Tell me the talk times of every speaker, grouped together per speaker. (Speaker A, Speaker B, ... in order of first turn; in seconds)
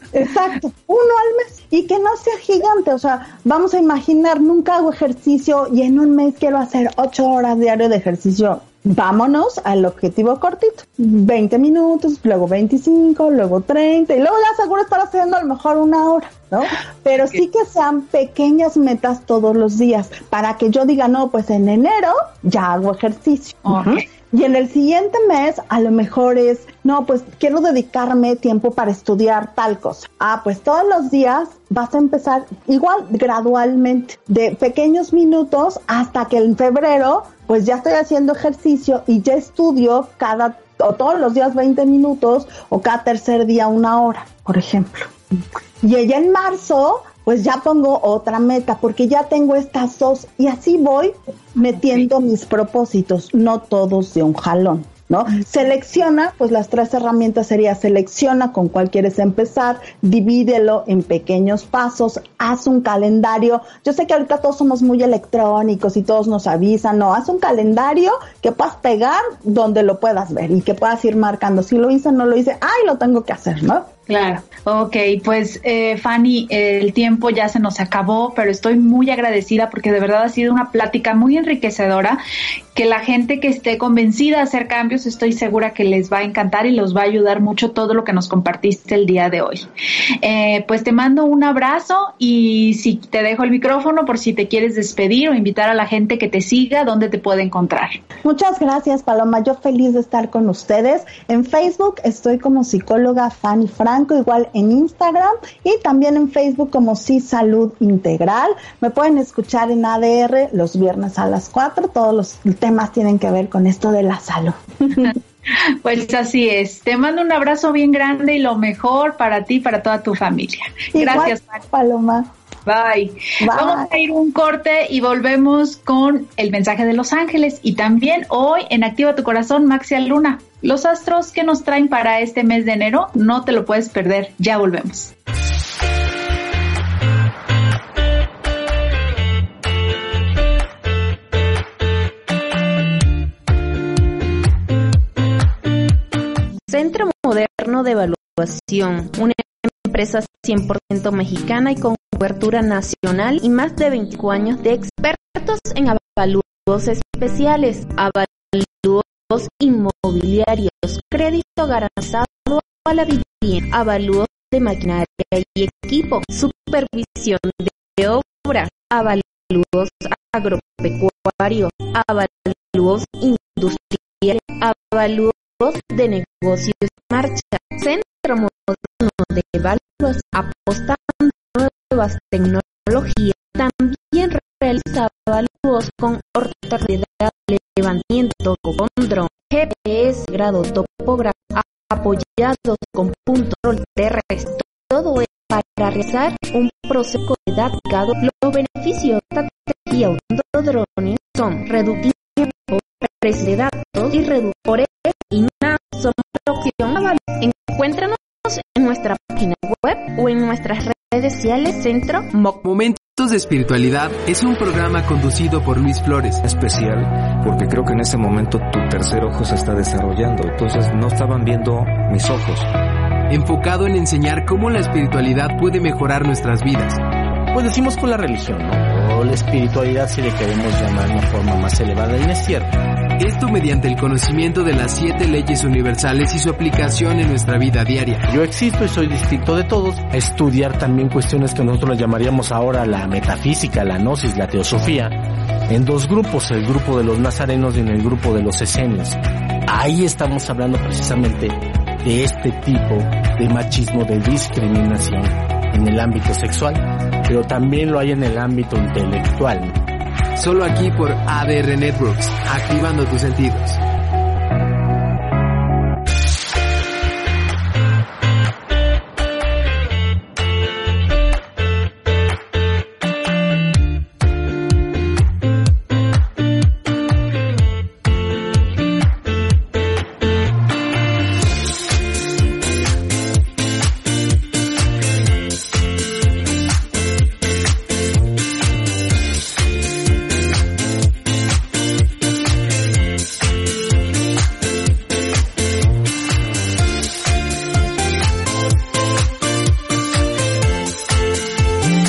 Speaker A: 0.1-73.9, 98.2-115.2, 120.9-122.3, 123.4-123.9
Speaker B: 23.6-24.0, 74.1-82.2, 82.8-89.7, 90.2-98.0, 115.0-121.6, 122.7-135.1
Speaker C: 146.7-212.6
Speaker D: 212.6-216.4, 223.3-227.0, 233.2-238.2, 260.4-263.8
Speaker E: 216.4-222.7
Speaker F: 227.5-232.7, 238.3-259.8